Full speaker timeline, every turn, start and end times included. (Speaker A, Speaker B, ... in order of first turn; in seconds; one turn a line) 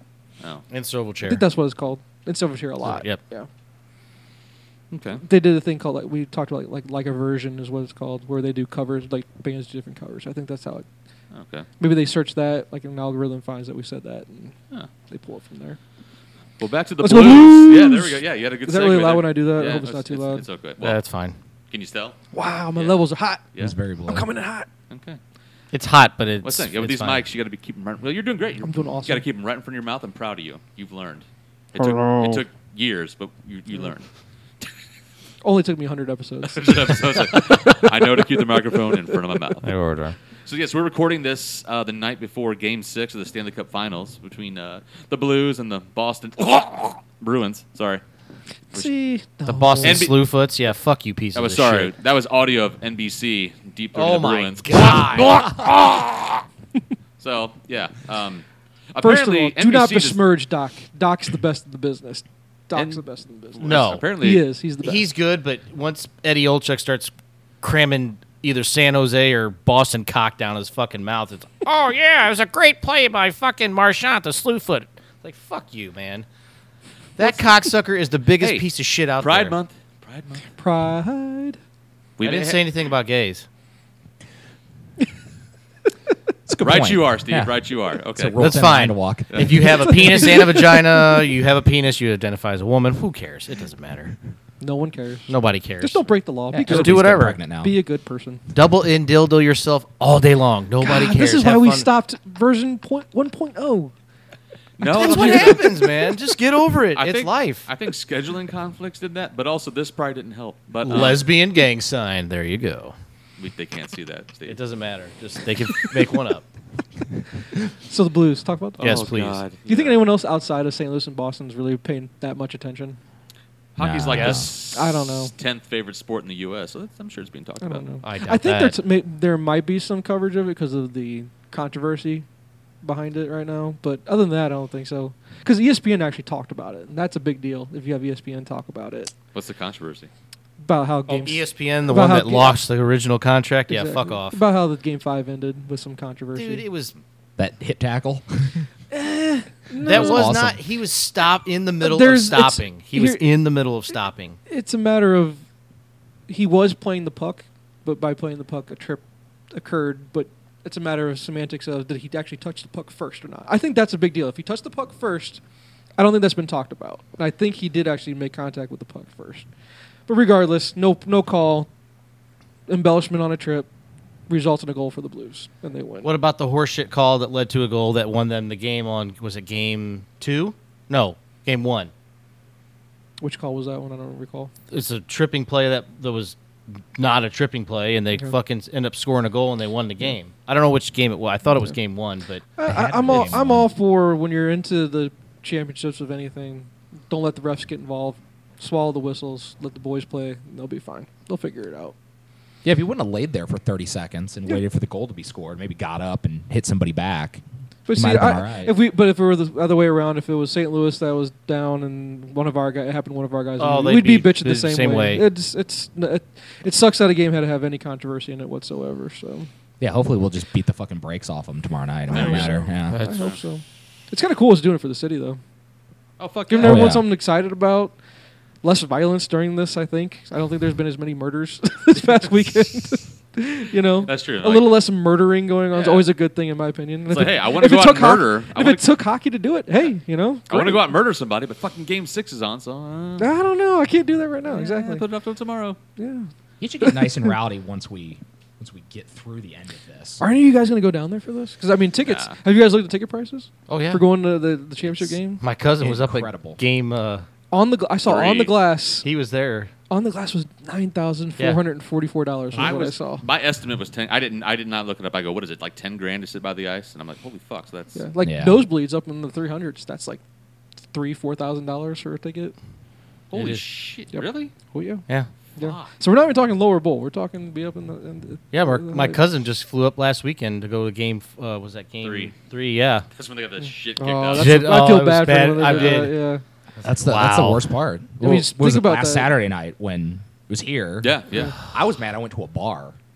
Speaker A: 0.7-1.5
Speaker B: 1.2-3.5
Speaker A: 2.8-3.2
Speaker C: 4.9-5.2
Speaker B: 5.2-10.9
Speaker C: 11.3-11.7
Speaker B: 11.8-14.6
Speaker B: 15.1-15.8
Speaker C: 16.6-21.0
Speaker B: 17.0-20.4
Speaker A: 20.8-21.4
Speaker C: 21.7-22.2
Speaker B: 22.3-23.4
Speaker D: 23.6-24.3
Speaker B: 24.1-24.7
Speaker C: 24.9-25.2
Speaker A: 25.7-27.2
Speaker C: 26.4-34.1
Speaker B: 28.6-29.2
Speaker B: 35.4-38.2
Speaker C: 36.5-39.7
Speaker A: 39.6-40.2
Speaker C: 40.5-48.0
Speaker B: 48.7-50.1
Speaker A: 49.5-51.9
Speaker C: 49.8-50.2
Speaker C: 51.4-56.1
Speaker A: 53.9-55.9
Speaker C: 57.2-60.2
Speaker B: 59.0-65.1
Speaker C: 62.7-63.0
Speaker C: 63.5-64.5
Speaker A: 63.6-64.1
Speaker A: 64.8-76.3
Speaker A: 77.2-79.6
Speaker C: 78.4-78.7
Speaker C: 79.2-80.5
Speaker B: 80.6-81.6
Speaker C: 82.2-82.7
Speaker A: 82.2-83.5
Speaker D: 86.5-87.5
Speaker C: 86.6-88.4
Speaker D: 88.2-90.0
Speaker A: 88.4-94.2
Speaker C: 89.3-89.7
Speaker B: 90.0-90.7
Speaker B: 94.6-98.4
Speaker A: 95.3-97.4
Speaker D: 96.5-97.7
Speaker A: 98.5-101.9
Speaker B: 100.8-103.9
Speaker C: 104.8-105.8
Speaker A: 104.8-107.7
Speaker B: 104.9-105.6
Speaker C: 107.0-111.2
Speaker A: 110.8-113.0
Speaker C: 113.4-114.6
Speaker A: 114.5-116.5
Speaker B: 117.9-119.0
Speaker A: 118.8-119.4
Speaker C: 118.8-120.0
Speaker B: 119.7-123.0
Speaker C: 123.8-127.8
Speaker D: 123.8-124.5
Speaker A: 124.1-124.4
Speaker B: 124.5-125.3
Speaker B: 127.6-132.3
Speaker A: 128.0-128.8
Speaker B: 132.8-139.1
Speaker C: 139.3-140.1
Speaker B: 140.6-142.6
Speaker A: 141.1-144.4
Speaker B: 143.7-146.7
Speaker A: 146.4-146.9
Speaker D: 147.4-148.7
Speaker B: 148.9-150.3
Speaker D: 149.8-150.6
Speaker A: 149.8-154.4
Speaker B: 151.8-153.2
Speaker B: 154.5-155.4
Speaker B: 156.3-165.4
Speaker B: 166.0-169.5
Speaker B: 170.1-171.7
Speaker B: 172.7-173.7
Speaker B: 174.3-176.1
Speaker A: 176.0-181.9
Speaker B: 183.2-184.5
Speaker A: 184.7-192.5
Speaker B: 192.6-201.9
Speaker D: 192.7-193.7
Speaker D: 202.6-208.8
Speaker B: 207.9-219.5
Speaker A: 213.6-215.3
Speaker D: 219.8-223.1
Speaker C: 222.1-223.4
Speaker B: 222.1-225.4
Speaker A: 222.9-223.2
Speaker C: 226.2-226.9
Speaker B: 226.5-228.0
Speaker D: 226.6-227.1
Speaker B: 228.6-240.9
Speaker C: 234.1-234.8
Speaker C: 235.7-236.1
Speaker C: 237.1-238.9
Speaker C: 240.5-243.3
Speaker B: 243.2-245.1
Speaker C: 244.4-245.8
Speaker B: 246.0-246.3
Speaker D: 246.6-250.2
Speaker B: 246.8-247.3
Speaker B: 250.2-255.4
Speaker C: 252.1-252.4
Speaker A: 253.7-254.1
Speaker A: 255.4-257.3
Speaker D: 255.8-256.6
Speaker B: 257.5-259.1
Speaker C: 258.1-258.6
Speaker A: 259.0-259.7
Speaker B: 259.9-263.2
Speaker C: 262.6-268.1
Speaker B: 267.9-270.2
Speaker D: 268.2-268.7
Speaker B: 270.9-272.6
Speaker C: 273.3-274.5
Speaker A: 273.3-273.6
Speaker B: 274.1-275.1
Speaker B: 275.6-279.2
Speaker C: 275.6-275.9
Speaker A: 278.5-283.1
Speaker C: 282.0-282.3
Speaker C: 283.1-284.7
Speaker B: 284.0-286.4
Speaker A: 284.4-286.2
Speaker C: 285.6-286.1
Speaker A: 286.8-287.8
Speaker D: 286.8-293.0
Speaker B: 288.2-289.3
Speaker C: 291.0-291.6